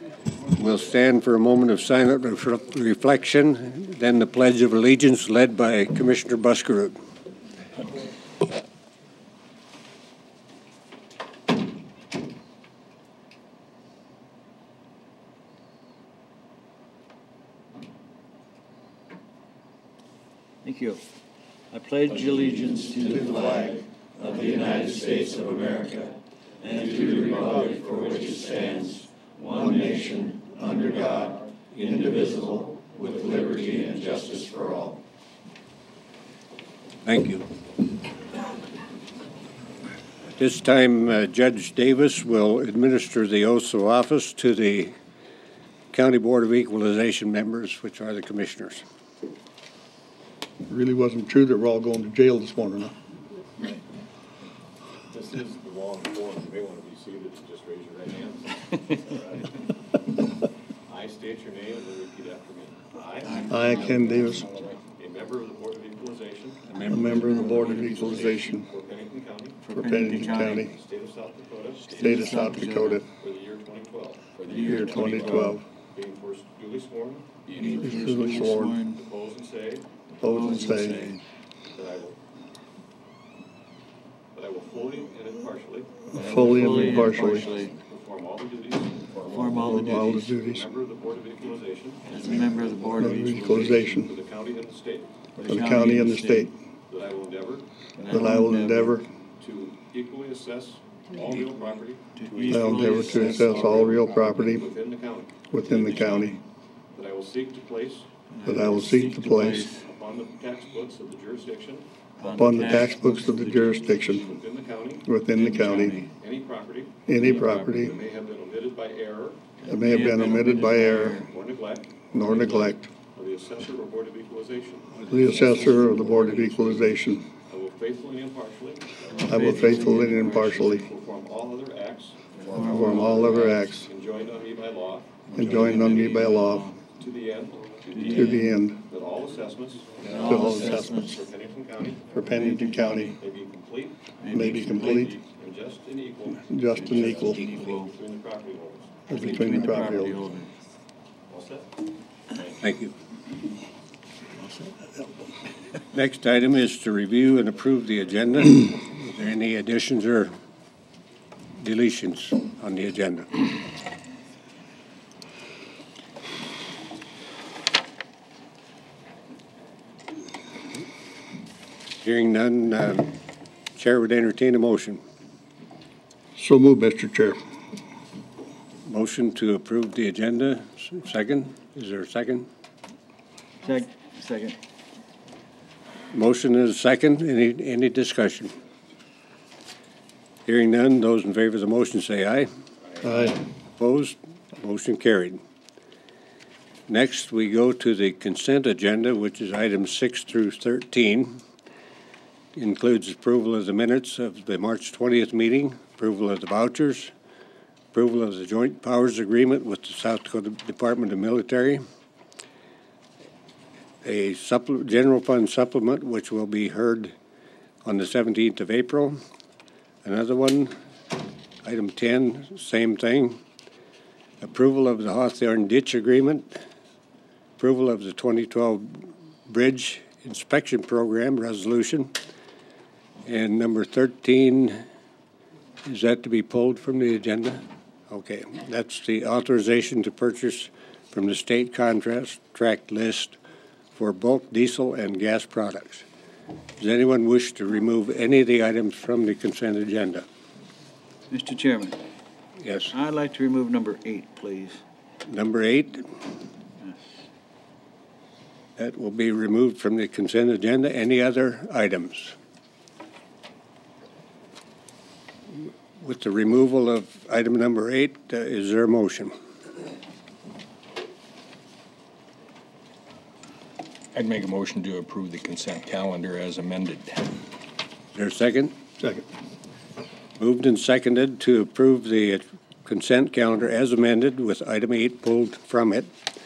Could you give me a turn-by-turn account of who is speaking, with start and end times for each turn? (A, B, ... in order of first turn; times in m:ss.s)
0:00.5-0:06.9 A
0:20.6-0:21.0 B
0:21.7-0:35.0 B
0:37.0-0:37.5 A
0:40.4-0:44.9 A
0:45.9-0:48.8 A
0:50.7-0:52.9 C
0:55.1-0:59.5 D
1:00.9-1:04.3 D
1:03.2-1:04.7 B
1:03.5-1:04.4 C
1:04.1-1:04.5 E
1:04.9-1:17.3 D
1:06.7-1:07.0 A
1:06.8-1:08.7 C
1:07.0-1:08.4 B
1:09.6-1:10.7 B
1:09.7-1:10.7 C
1:11.9-1:13.0 B
1:11.9-1:13.0 C
1:14.4-1:15.3 E
1:14.4-1:15.6 B
1:14.6-1:15.6 C
1:17.5-1:18.1 E
1:17.5-1:19.0 B
1:17.8-1:18.8 C
1:18.8-1:19.9 D
1:20.2-1:21.1 C
1:20.2-1:21.2 B
1:21.7-1:22.2 D
1:24.3-1:32.6 D
1:26.1-1:27.7 B
1:26.2-1:27.5 C
1:29.1-1:29.7 E
1:29.2-1:30.3 B
1:29.5-1:30.6 C
1:32.1-1:33.9 B
1:32.1-1:33.0 E
1:32.9-1:34.1 C
1:33.1-1:35.1 D
1:35.4-1:36.5 B
1:35.4-1:36.5 C
1:36.9-1:37.7 D
1:38.0-1:39.0 B
1:38.1-1:39.0 C
1:39.4-1:45.5 D
1:42.1-1:44.6 B
1:42.5-1:44.6 C
1:45.5-1:46.4 C
1:45.6-1:46.4 B
1:46.9-1:48.1 D
1:48.3-1:49.8 B
1:48.4-1:49.7 C
1:49.7-1:53.0 D
1:52.2-1:53.9 B
1:52.3-1:54.2 C
1:53.6-1:55.1 D
1:55.0-1:56.0 C
1:55.3-1:56.1 B
1:56.0-2:05.0 D
1:57.1-1:57.9 C
1:57.1-1:58.0 B
1:59.6-2:01.2 C
1:59.7-2:01.3 B
2:02.1-2:02.9 C
2:05.0-2:06.9 A
2:05.1-2:07.2 C
2:05.4-2:05.8 B
2:07.4-2:16.2 D
2:09.1-2:10.8 B
2:09.3-2:10.8 C
2:12.4-2:13.0 E
2:12.5-2:13.6 B
2:12.6-2:13.8 C
2:15.3-2:16.8 B
2:15.3-2:16.6 C
2:17.0-2:22.2 D
2:17.9-2:18.5 B
2:18.2-2:18.8 C
2:20.0-2:21.2 B
2:20.2-2:21.0 C
2:22.1-2:23.1 C
2:22.2-2:23.2 B
2:23.1-2:30.1 D
2:24.2-2:25.1 B
2:24.3-2:25.1 C
2:26.5-2:27.4 C
2:26.7-2:27.9 B
2:29.1-2:30.2 C
2:29.1-2:30.5 B
2:29.1-2:29.4 A
2:31.3-2:31.8 D
2:32.3-2:32.6 D
2:32.6-2:32.9 A
2:35.9-2:40.3 A
2:41.6-2:43.4 A
2:52.0-2:53.1 A
2:53.8-2:55.0 A
2:56.4-2:57.4 C
2:58.8-3:02.5 A
3:03.6-3:04.6 B
3:06.1-3:08.5 A
3:10.4-3:12.5 A
3:13.0-3:13.4 C
3:13.1-3:15.4 A
3:16.9-3:21.4 A
3:22.6-3:27.1 A
3:27.9-3:31.8 A
3:34.0-3:37.1 A
3:37.8-3:39.2 A
3:40.0-3:40.7 A
3:41.6-3:43.4 A
3:44.4-3:46.6 A
3:47.6-3:52.1 A
3:53.2-3:54.8 A
3:55.8-4:03.4 A
4:03.9-4:06.0 A
4:06.8-4:10.2 A
4:11.3-4:12.0 B
4:12.6-4:12.9 A
4:12.9-4:14.8 B
4:15.2-4:16.1 A
4:18.8-4:22.3 A
4:26.0-4:29.3 A
4:34.1-4:37.4 E
4:38.1-4:38.7 A
4:40.4-4:46.1 A